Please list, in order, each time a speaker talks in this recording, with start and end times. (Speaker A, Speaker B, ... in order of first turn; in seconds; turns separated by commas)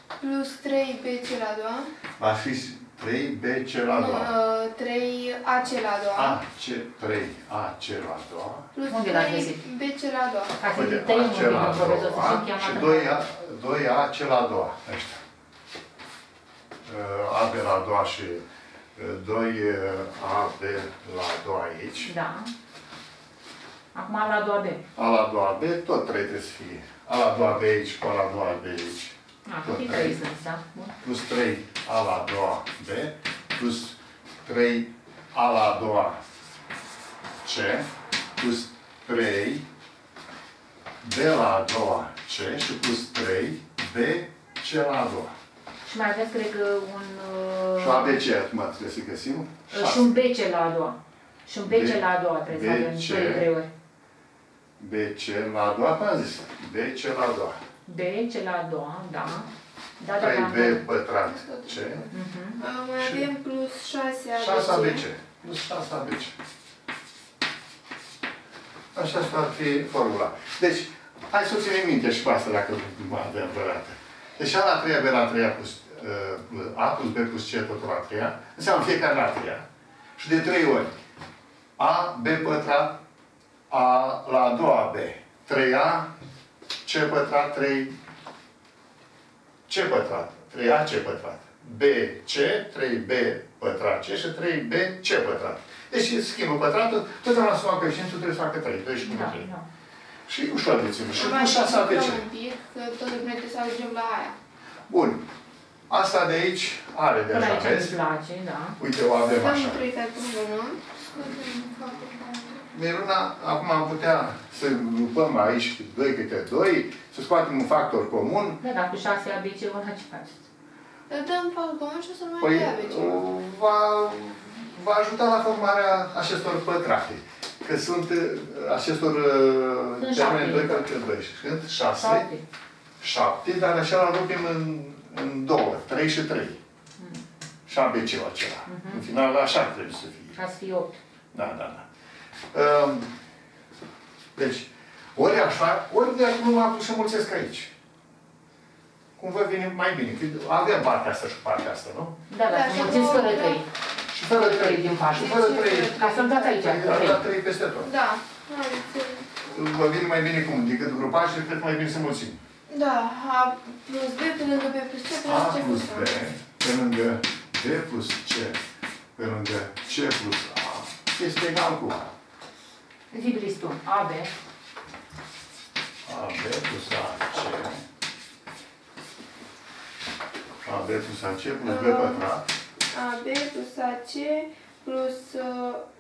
Speaker A: 0.2-1.9, Speaker B: 2.2-4.3, Speaker A: 3.9-6.3, Speaker B: 6.2-8.7, Speaker A: 8.8-10.6, Speaker C: 8.9-9.6, Speaker C: 10.6-13.2, Speaker B: 10.7-15.2, Speaker B: 16.9-18.4, Speaker B: 19.0-22.1, Speaker C: 22.1-22.5, Speaker C: 23.9-24.8, Speaker B: 25.0-30.2, Speaker C: 29.5-30.9, Speaker B: 31.0-36.2, Speaker B: 37.4-39.6, Speaker B: 41.0-45.3, Speaker C: 45.9-48.2, Speaker B: 47.8-50.2, Speaker C: 49.7-53.7, Speaker B: 51.6-53.5, Speaker B: 54.8-57.6, Speaker C: 57.9-60.8, Speaker B: 60.1-62.1, Speaker A: 61.3-61.8, Speaker C: 62.1-62.6, Speaker A: 62.6-65.0, Speaker B: 63.0-63.3, Speaker B: 64.4-66.3, Speaker B: 68.9-79.6, Speaker B: 80.2-80.9, Speaker B: 81.8-83.0, Speaker B: 83.7-86.1, Speaker B: 86.8-88.0, Speaker B: 89.7-99.5, Speaker C: 99.0-99.7, Speaker B: 100.3-102.2, Speaker A: 101.2-104.4, Speaker B: 104.9-105.2, Speaker B: 105.9-108.0, Speaker C: 107.3-108.8, Speaker B: 108.8-109.8, Speaker A: 109.4-112.6, Speaker B: 112.7-118.6, Speaker C: 118.6-120.4, Speaker A: 121.1-123.2, Speaker B: 122.4-132.3, Speaker C: 130.0-130.8, Speaker C: 132.0-132.4, Speaker B: 133.0-136.6, Speaker B: 137.7-140.4, Speaker C: 138.7-139.0, Speaker C: 140.4-141.0, Speaker B: 141.3-141.9, Speaker B: 142.5-143.1, Speaker B: 144.4-147.7, Speaker B: 149.2-152.2, Speaker C: 152.3-153.7, Speaker A: 152.5-153.6, Speaker B: 154.1-157.9, Speaker C: 154.3-157.2, Speaker A: 155.2-156.8, Speaker A: 157.8-159.3, Speaker B: 159.5-162.4, Speaker A: 162.7-166.1, Speaker B: 165.2-168.6, Speaker B: 169.2-172.1, Speaker C: 173.1-174.3, Speaker B: 176.1-177.8, Speaker B: 180.7-182.5, Speaker A: 181.6-182.2, Speaker A: 182.9-185.8